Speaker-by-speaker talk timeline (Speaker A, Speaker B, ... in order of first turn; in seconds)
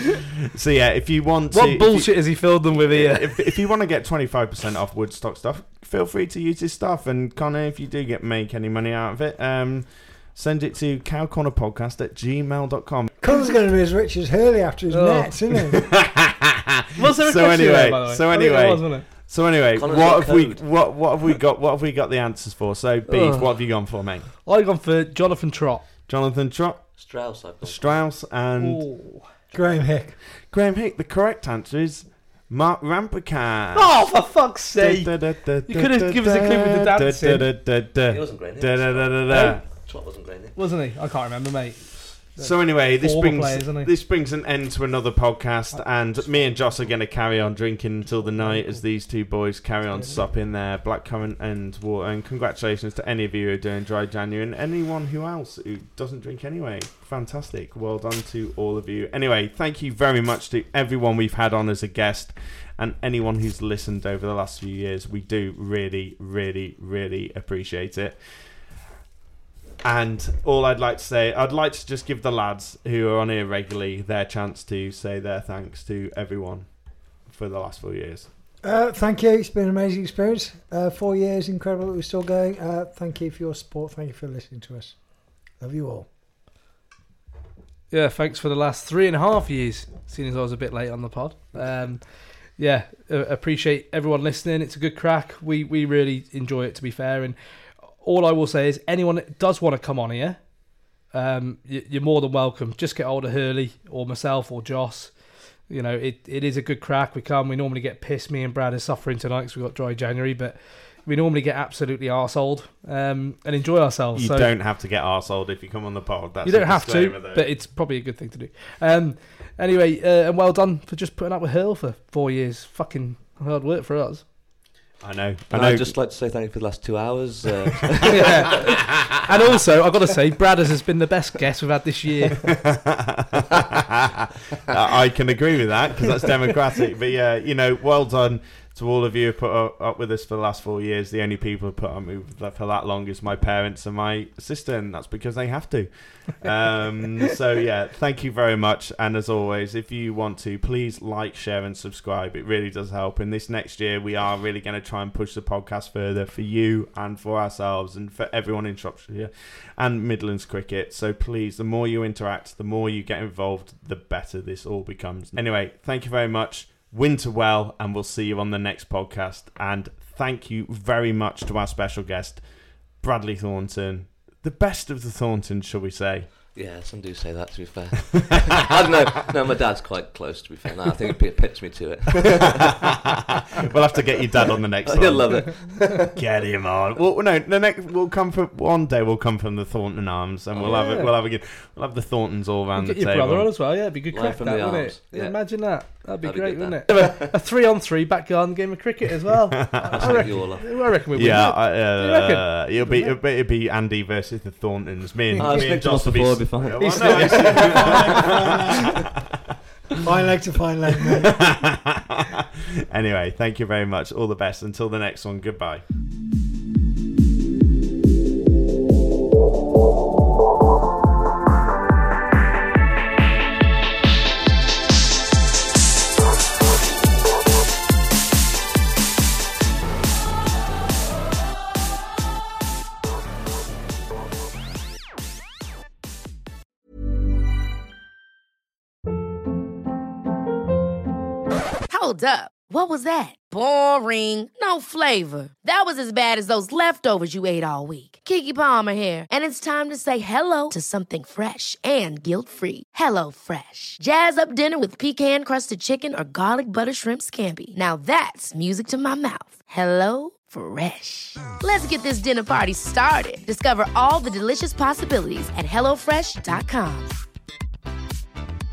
Speaker A: 0.6-13.2, 15.7-16.3, 17.0-24.3, 26.0-27.0, 27.6-29.1, 30.4-39.6, 42.4-68.6, 69.8-78.3, 114.1-117.5, 125.0-125.9, 132.6-172.4, 173.0-176.3, 182.2-185.4, 186.1-193.5, 199.6-200.5, 201.1-208.8, 211.2-212.3, 212.9-215.8
Speaker B: 1.5-3.7, 14.9-15.4, 17.0-19.1, 23.1-23.8, 24.4-25.9, 28.6-29.4, 33.7-37.7, 39.3-39.6, 40.5-43.9, 45.7-46.9, 48.0-48.9, 49.9-50.3, 87.9-100.5, 101.1-114.5, 116.4-124.3, 128.1-132.5, 190.7-191.1, 192.7-203.2, 205.3-205.8, 206.8-208.4
Speaker C: 13.2-15.9, 29.5-30.2, 78.6-86.1, 207.4-208.9, 210.0-211.3
Speaker D: 19.8-20.8, 26.9-28.0, 38.0-40.6, 125.5-129.0, 176.5-182.8, 184.8-186.1, 190.5-190.9, 194.1-197.3, 199.9-201.0, 205.4-208.3
Speaker E: 241.9-267.1